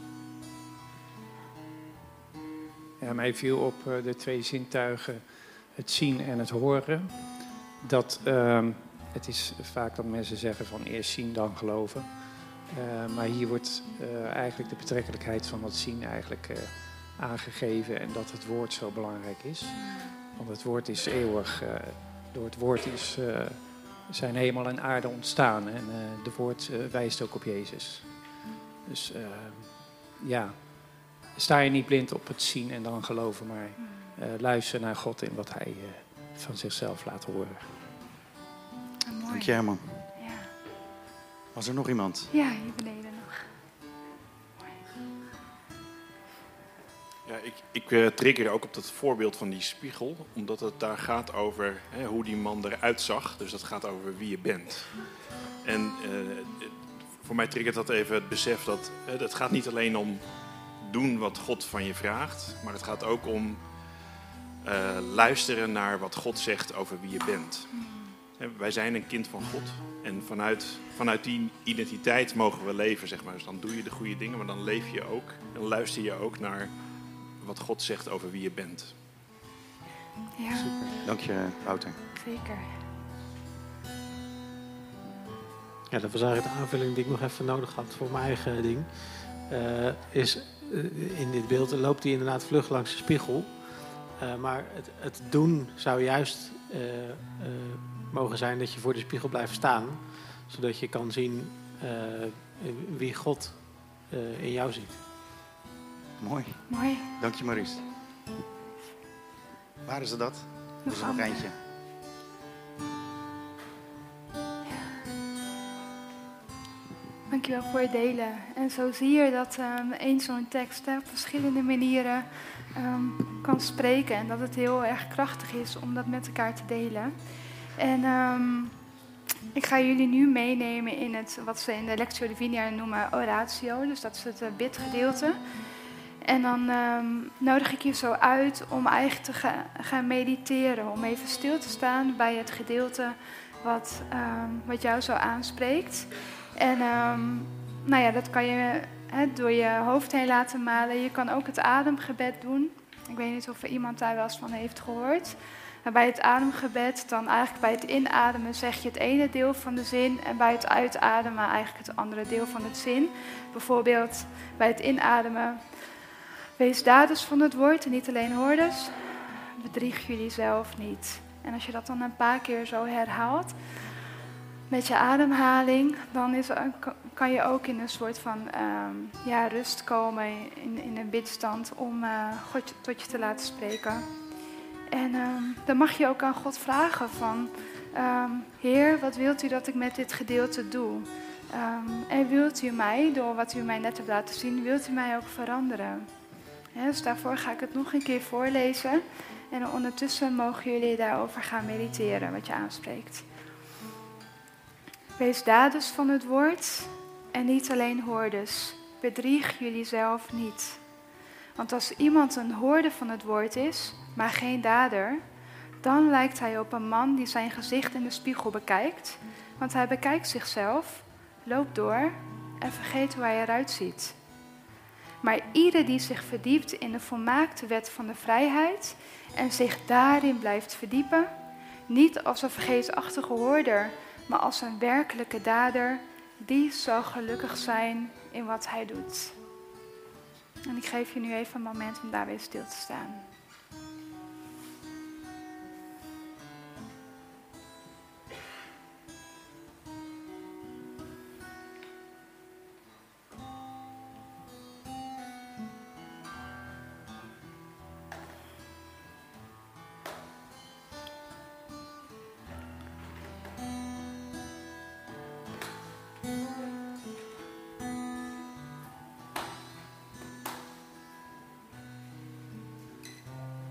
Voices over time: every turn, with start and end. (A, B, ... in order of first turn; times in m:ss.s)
0:03.0-0:37.7 A
0:39.1-0:40.5 B
0:39.3-0:40.1 C
0:41.5-0:42.3 C
0:42.3-0:43.5 B
0:47.3-0:55.1 D
0:55.6-1:03.7 D
1:04.6-1:19.0 D
1:07.8-1:08.1 B
1:20.4-1:20.7 B
1:20.5-1:22.0 C
1:22.2-1:22.7 B
1:25.9-1:45.0 E
1:46.2-1:47.8 C
1:46.7-1:47.1 B
1:49.8-1:51.6 C
1:50.8-1:51.5 B
1:57.3-2:08.8 B
2:09.5-2:15.4 B
2:16.2-2:53.6 B
2:54.7-3:04.1 B
3:04.9-3:16.1 B
3:16.8-3:23.2 B
3:25.2-3:30.8 B
3:31.6-3:35.2 B
3:35.8-3:44.2 B
3:45.2-3:51.3 B
3:51.9-3:59.4 B
4:00.7-4:03.2 B